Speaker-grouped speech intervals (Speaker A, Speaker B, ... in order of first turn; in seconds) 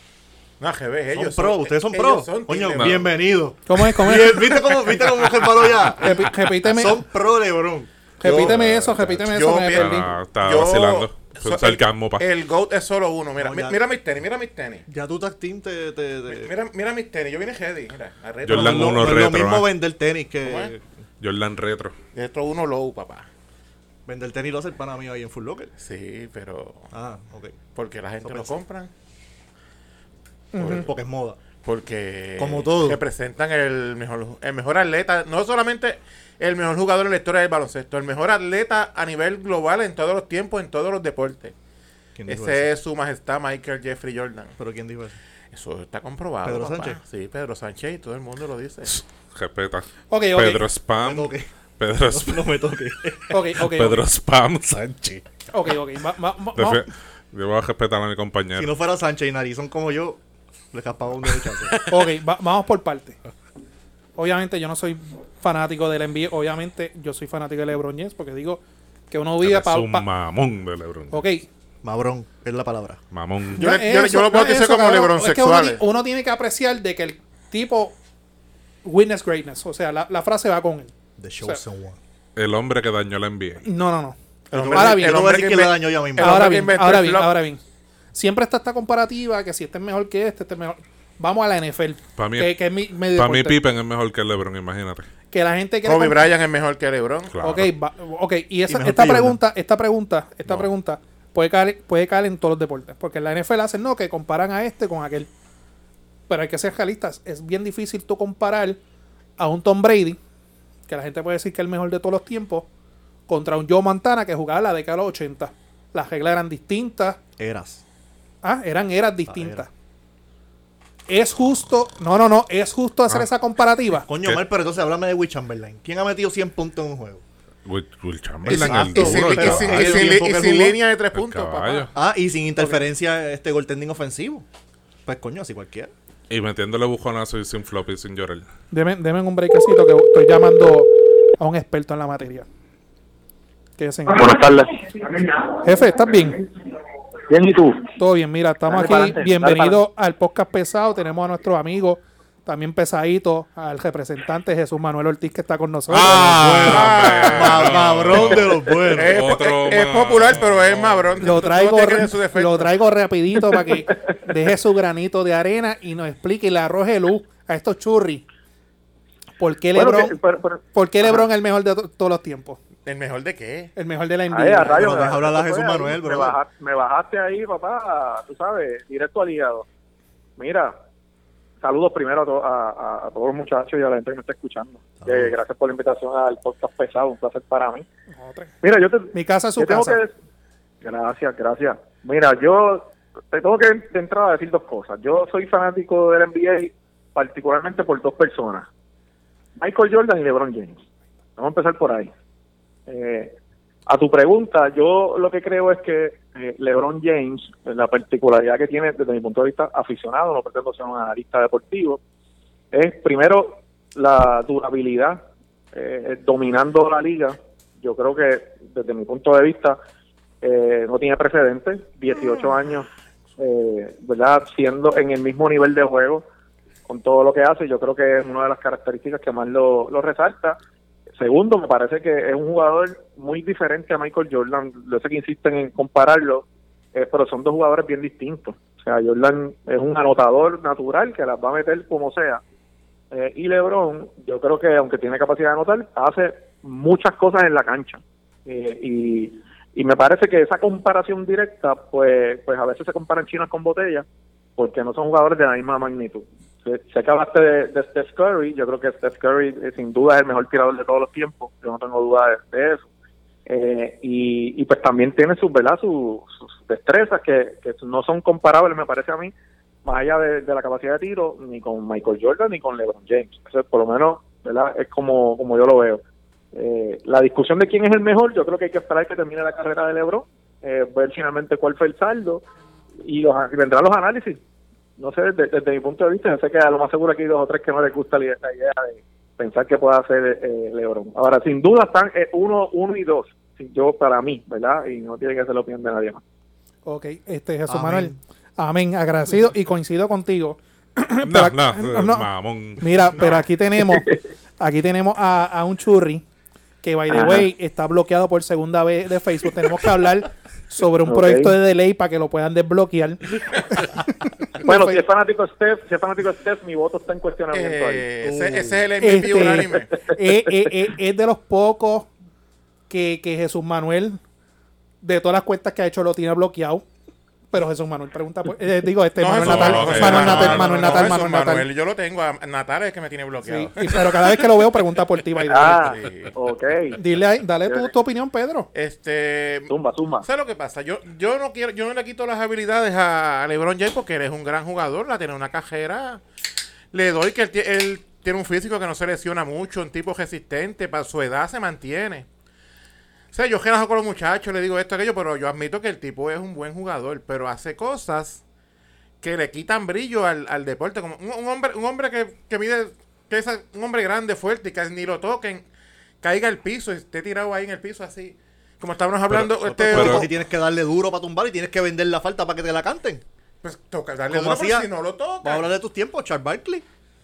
Speaker A: 0.6-3.1, 8.2-14.8, 16.3-19.4, 20.4-20.7, 22.1-23.3, 25.8-26.9, 27.8-28.9, 30.6-30.9, 31.6-41.5, 42.3-44.6, 45.5-49.0, 73.6-75.8, 84.5-87.4, 95.8-97.3, 128.5-131.9, 156.7-158.2, 158.9-162.7, 172.8-173.7, 317.5-319.9, 329.2-334.4, 335.6-336.4, 338.7-339.7, 340.2-346.2, 346.9-352.3, 353.3-358.4, 359.2-365.7, 366.2-370.3, 373.6-375.7
Speaker B: 1.1-7.9, 13.4-13.8, 14.9-16.5, 18.5-20.8, 24.1-25.7, 26.9-27.6, 28.2-28.6, 30.6-31.4, 32.4-33.0, 42.1-42.7, 44.6-45.2, 46.4-47.0, 51.0-51.5, 52.0-53.4, 58.5-60.2, 60.7-61.8, 71.8-73.0, 81.2-82.0, 84.5-86.7, 98.7-99.4, 117.4-117.8, 119.3-119.7, 124.0-127.2, 128.4-130.8, 131.9-134.4, 135.1-135.9, 155.9-159.2, 174.7-176.4, 185.0-185.4, 297.7-298.2, 318.2-318.9, 369.6-373.2, 374.3-374.9, 375.4-376.9
Speaker C: 3.7-4.9, 5.9-7.0, 8.2-10.1, 30.5-30.8, 50.1-50.6, 53.3-54.0, 55.5-56.9, 61.9-63.2, 64.2-70.1, 71.1-71.5, 73.6-78.0, 78.8-81.6, 83.6-84.2, 84.7-85.3, 86.2-87.6, 88.1-93.6, 95.3-96.3, 97.4-105.3, 106.3-108.8, 109.4-110.2, 110.9-112.7, 113.3-117.2, 118.4-119.7, 121.1-124.1, 138.7-142.5, 143.8-144.3, 145.6-146.4, 148.0-156.2, 161.2-168.2, 169.4-170.2, 170.7-172.6, 173.8-175.1, 188.1-188.6, 189.1-190.0, 296.9-302.3, 302.8-306.2, 306.8-314.0, 314.6-315.0, 319.0-322.1, 322.9-324.2, 325.0-326.9, 327.5-331.7, 333.4-336.0, 336.9-338.7
Speaker D: 9.7-12.3, 18.4-19.7, 21.2-21.9, 48.9-52.6, 53.6-55.2, 56.6-58.7, 69.4-71.2, 73.1-73.7, 82.4-83.7, 92.2-92.6, 93.1-95.1, 97.3-97.7, 127.6-130.2, 131.1-131.9, 136.3-138.5, 155.9-161.2, 301.2-303.3, 329.4-331.1, 369.3-370.3
Speaker E: 144.1-145.5, 147.3-147.9, 148.7-149.8, 169.7-171.3, 174.3-179.7, 180.4-180.8, 181.6-187.9, 188.6-190.1, 190.8-198.7, 199.6-200.8, 201.4-202.1, 202.9-203.3, 203.9-212.0, 212.7-219.8, 220.4-226.3, 226.9-230.6, 231.2-242.4, 243.1-254.1, 254.6-262.9, 263.5-269.3, 269.9-276.0, 276.5-282.4, 283.0-284.4, 285.0-296.2, 303.9-304.2, 307.1-307.5, 311.1-311.6, 314.6-318.1, 335.5-337.0, 337.6-337.9, 339.7-340.3